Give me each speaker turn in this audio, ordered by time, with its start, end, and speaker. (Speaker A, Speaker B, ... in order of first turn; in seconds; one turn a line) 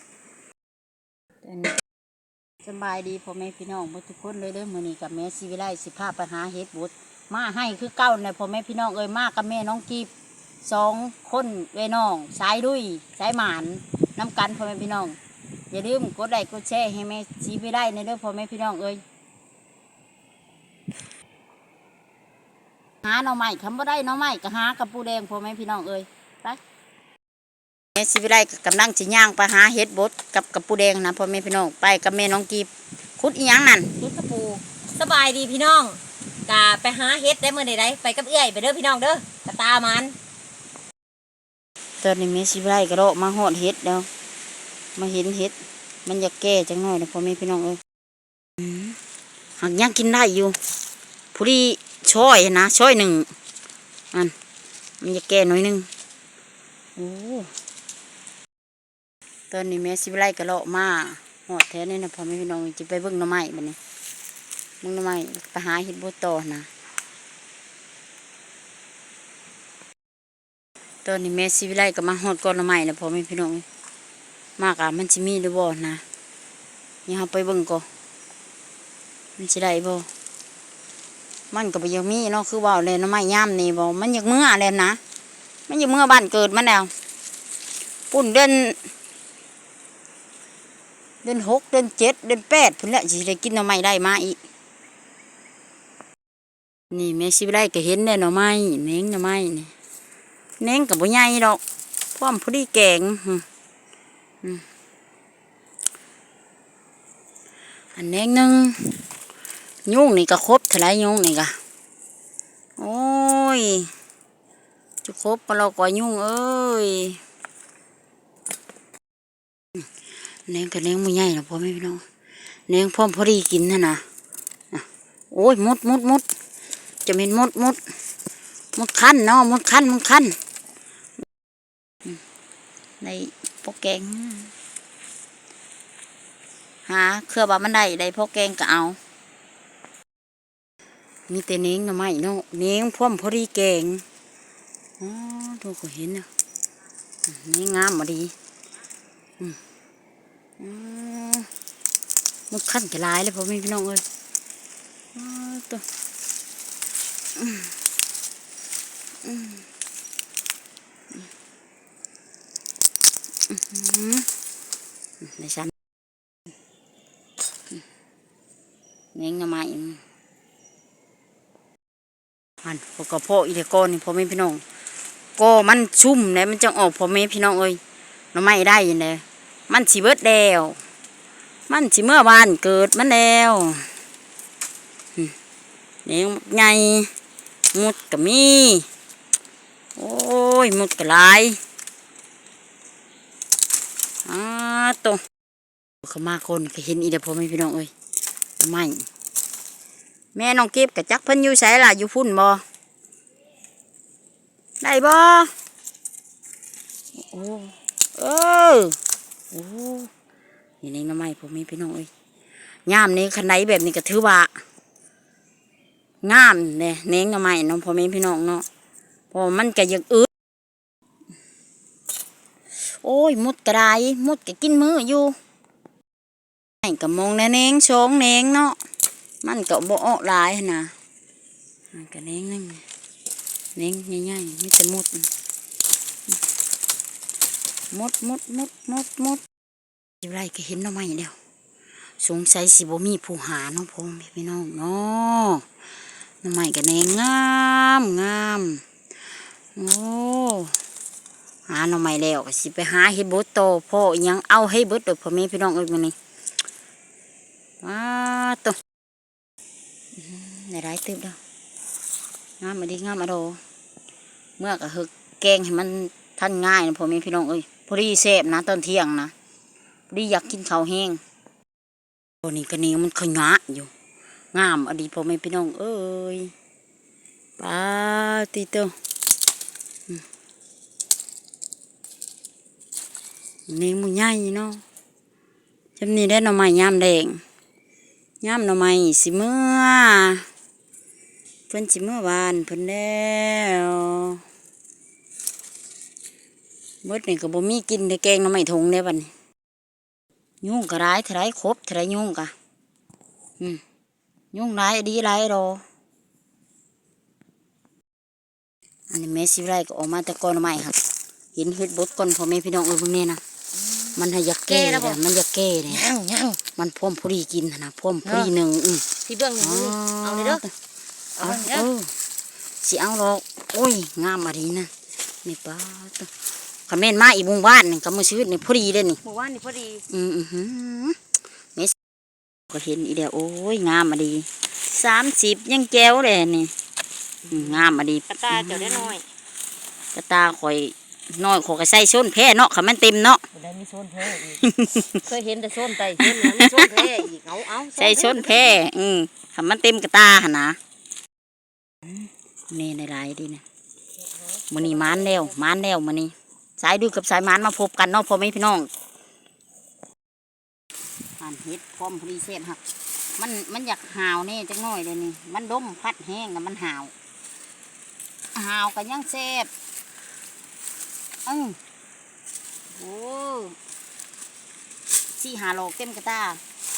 Speaker A: 1.4-1.7
Speaker A: 2.6-10.1
Speaker A: 10.6-15.2
Speaker A: 15.7-19.0
Speaker A: 23.0-26.6
Speaker A: 27.9-33.9
Speaker B: 34.0-40.2
Speaker A: 42.0-44.1
Speaker A: 45.0-45.5
Speaker A: 46.1-47.8
Speaker A: 48.6-49.0
Speaker A: 49.6-50.6
Speaker A: 51.3-53.3
Speaker A: 55.0-55.9
Speaker A: 57.0-57.5
Speaker A: 59.5-63.8
Speaker A: 64.8-66.7
Speaker A: 71.0-73.7
Speaker A: 74.6-76.0
Speaker A: 77.1-77.9
Speaker A: 79.4-80.1
Speaker A: 81.5-85.0
Speaker A: 85.7-86.9
Speaker A: 88.1-88.8
Speaker A: 91.2-94.4
Speaker A: 96.9-99.7
Speaker A: 100.6-101.6
Speaker A: 102.2-103.4
Speaker A: 108.0-109.0
Speaker A: 109.9-111.5
Speaker A: 112.8-113.9
Speaker A: 115.0-117.2
Speaker A: 120.5-122.0
Speaker A: 122.7-124.0
Speaker A: 124.7-126.2
Speaker A: 127.1-127.8
Speaker A: 128.8-130.3
Speaker A: 133.0-134.5
Speaker A: 136.9-139.0
Speaker A: 141.3-144.0
Speaker A: 145.0-146.3
Speaker A: 147.3-148.3
Speaker A: 150.6-151.5
Speaker A: 152.5-154.0
Speaker A: 155.2-155.8
Speaker A: 157.4-157.7
Speaker A: 159.2-159.7
Speaker A: 163.5-164.3
Speaker A: 165.2-165.7
Speaker A: 169.2-170.0
Speaker A: 172.6-174.6
Speaker A: 175.4-177.8
Speaker A: 178.3-180.8
Speaker A: 181.7-183.9
Speaker A: 186.1-187.1
Speaker A: 187.7-188.9
Speaker A: 190.0-191.6
Speaker A: 194.3-195.2
Speaker A: 196.0-197.9
Speaker A: 198.6-199.1
Speaker A: 200.3-202.6
Speaker A: 204.8-205.5
Speaker A: 207.2-209.0
Speaker A: 209.5-210.1
Speaker A: 210.8-212.1
Speaker A: 212.9-214.5
Speaker A: 216.2-218.7
Speaker A: 219.3-220.3
Speaker A: 223.0-225.4
Speaker A: 226.8-228.8
Speaker A: 229.4-230.9
Speaker A: 231.9-232.8
Speaker A: 233.8-235.3
Speaker A: 237.9-239.4
Speaker A: 240.2-241.3
Speaker A: 242.2-245.7
Speaker A: 246.4-248.8
Speaker A: 249.8-250.7
Speaker A: 251.7-256.1
Speaker A: 257.8-258.8
Speaker A: 260.1-261.4
Speaker A: 262.6-263.6
Speaker A: 264.6-269.3
Speaker A: 270.1-271.2
Speaker A: 272.4-273.9
Speaker A: 274.5-276.5
Speaker A: 277.6-278.9
Speaker A: 283.7-284.8
Speaker A: 286.0-287.4
Speaker A: 288.4-290.4
Speaker A: 291.7-294.4
Speaker A: 297.0-299.3
Speaker A: 300.6-302.5
Speaker A: 304.5-305.8
Speaker A: 309.1-311.0
Speaker A: 311.6-313.4
Speaker A: 314.2-316.2
Speaker B: 314.7-315.2
Speaker B: 316.1-316.6
Speaker A: 316.8-319.1
Speaker B: 319.2-320.6
Speaker A: 319.6-320.7
Speaker B: 321.4-321.9
Speaker A: 321.4-322.1
Speaker A: 322.8-324.9
Speaker A: 325.4-326.3
Speaker A: 326.9-329.2
Speaker B: 329.2-330.1
Speaker A: 330.1-331.2
Speaker A: 332.7-336.7
Speaker B: 337.5-339.2
Speaker A: 337.5-339.1
Speaker A: 340.1-343.4
Speaker B: 343.5-344.6
Speaker A: 344.4-345.2
Speaker B: 345.2-348.8
Speaker A: 346.2-347.2
Speaker A: 347.9-350.8
Speaker A: 352.7-353.6
Speaker B: 354.6-355.5
Speaker A: 354.7-358.9
Speaker A: 361.4-362.8
Speaker A: 363.4-367.1
Speaker A: 368.6-369.7
Speaker A: 371.5-371.8
Speaker A: 372.9-373.8
Speaker A: 375.4-376.6